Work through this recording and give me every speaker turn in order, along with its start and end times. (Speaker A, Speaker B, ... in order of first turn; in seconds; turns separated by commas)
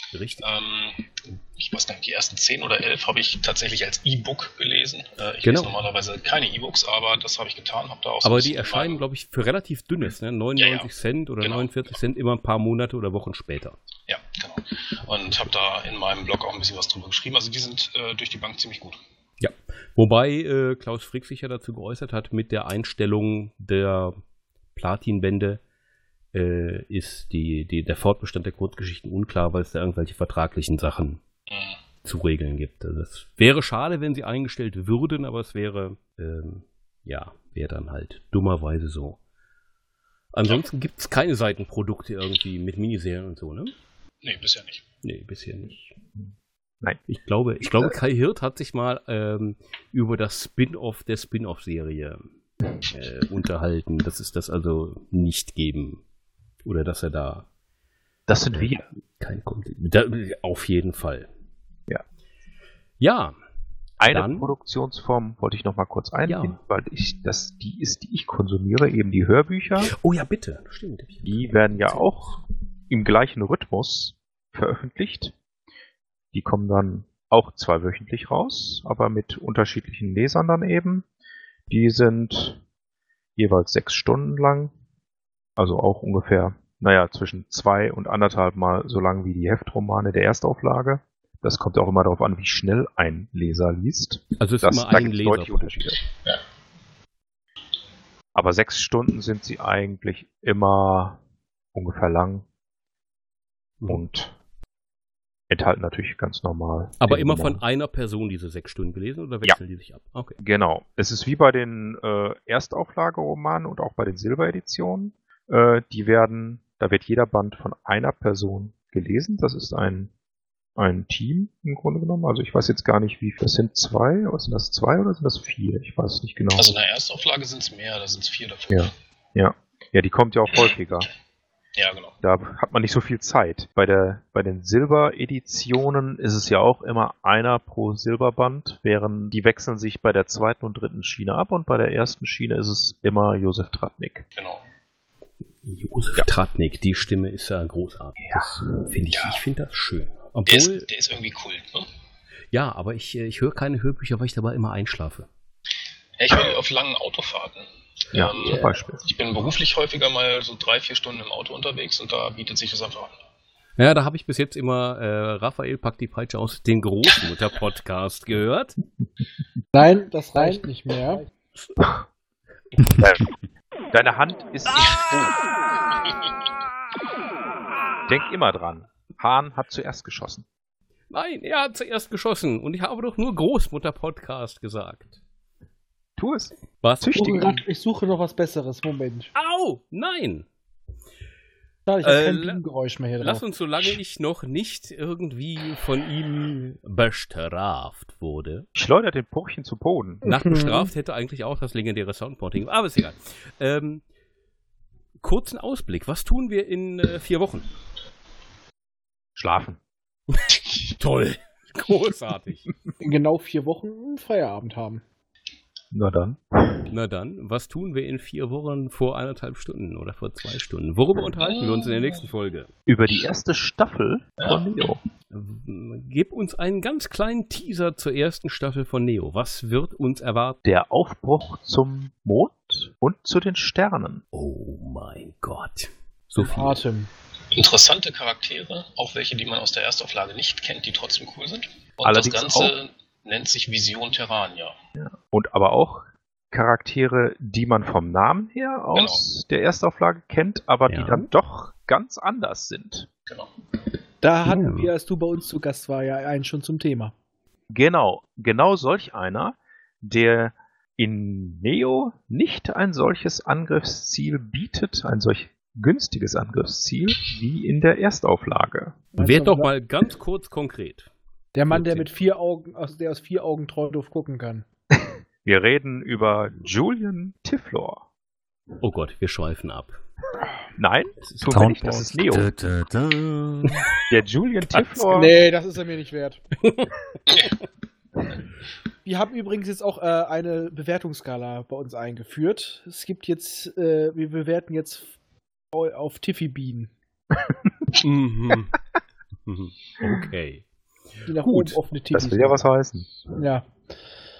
Speaker A: 0.1-0.5, Speaker B: 0.4-9.0, Speaker A: 5.4-5.8, Speaker A: 8.2-13.8, Speaker B: 10.6-10.9, Speaker B: 11.4-11.7, Speaker B: 14.1-19.0, Speaker A: 19.4-24.2, Speaker A: 24.7-25.6, Speaker A: 26.3-31.2, Speaker B: 31.5-31.8, Speaker A: 32.0-39.2, Speaker A: 40.3-43.7, Speaker B: 44.2-44.8, Speaker A: 45.0-46.0, Speaker A: 47.1-52.2, Speaker A: 52.9-56.0, Speaker A: 56.6-57.5, Speaker C: 58.3-58.8, Speaker A: 58.5-61.3, Speaker A: 63.0-63.4, Speaker C: 64.0-69.9, Speaker A: 64.0-64.5, Speaker A: 66.2-66.6, Speaker A: 69.8-72.3, Speaker C: 71.2-72.4, Speaker C: 72.9-75.3, Speaker C: 76.3-81.0, Speaker C: 81.7-82.6, Speaker C: 83.4-84.7, Speaker C: 85.6-96.0, Speaker A: 94.4-96.0, Speaker C: 98.3-101.2, Speaker C: 101.7-102.5, Speaker A: 103.8-104.0, Speaker C: 103.9-104.3, Speaker C: 105.5-107.6, Speaker A: 107.0-110.4, Speaker C: 110.4-120.1, Speaker C: 120.8-126.7, Speaker B: 126.5-128.9, Speaker C: 128.7-131.1, Speaker B: 131.8-132.2, Speaker C: 132.2-144.2, Speaker B: 144.3-144.6, Speaker A: 145.6-150.9, Speaker C: 148.2-148.7, Speaker B: 149.1-149.4, Speaker B: 150.5-151.9, Speaker A: 152.5-155.3, Speaker B: 156.2-163.1, Speaker C: 158.1-159.0, Speaker A: 163.8-168.8, Speaker D: 169.7-171.2, Speaker C: 173.0-173.2, Speaker C: 173.9-175.4, Speaker C: 178.1-180.4, Speaker A: 181.1-185.2, Speaker C: 186.2-187.6, Speaker A: 186.8-187.1, Speaker D: 187.1-189.3, Speaker A: 189.3-190.5, Speaker D: 191.8-193.4, Speaker A: 192.0-192.6, Speaker A: 193.2-198.7, Speaker C: 198.8-200.2, Speaker A: 200.2-204.0, Speaker D: 200.3-200.9, Speaker A: 205.2-207.7, Speaker C: 209.3-209.8, Speaker A: 210.3-212.7, Speaker D: 213.0-215.0, Speaker C: 215.9-216.9, Speaker A: 216.9-222.7, Speaker B: 221.5-221.8, Speaker C: 222.9-225.0, Speaker A: 225.3-230.6, Speaker C: 230.6-234.2, Speaker A: 234.3-236.8, Speaker D: 236.4-237.1, Speaker B: 237.5-244.7, Speaker C: 242.0-242.7, Speaker C: 245.0-253.1, Speaker B: 248.9-249.2, Speaker A: 250.9-251.3, Speaker D: 254.2-257.1, Speaker A: 254.5-254.9, Speaker C: 257.7-269.0, Speaker D: 269.2-269.7, Speaker A: 269.2-271.1, Speaker D: 271.6-274.6, Speaker A: 271.7-272.1, Speaker C: 274.9-278.0, Speaker A: 278.8-280.0, Speaker C: 280.8-282.5, Speaker A: 281.2-281.6, Speaker E: 281.5-284.0, Speaker C: 284.1-285.4, Speaker D: 285.0-286.4, Speaker A: 286.6-287.4, Speaker D: 289.0-295.1, Speaker D: 295.7-296.9, Speaker A: 298.0-298.8, Speaker A: 299.4-300.6, Speaker A: 301.2-301.8, Speaker D: 301.3-302.6, Speaker C: 302.1-303.4, Speaker D: 303.3-303.7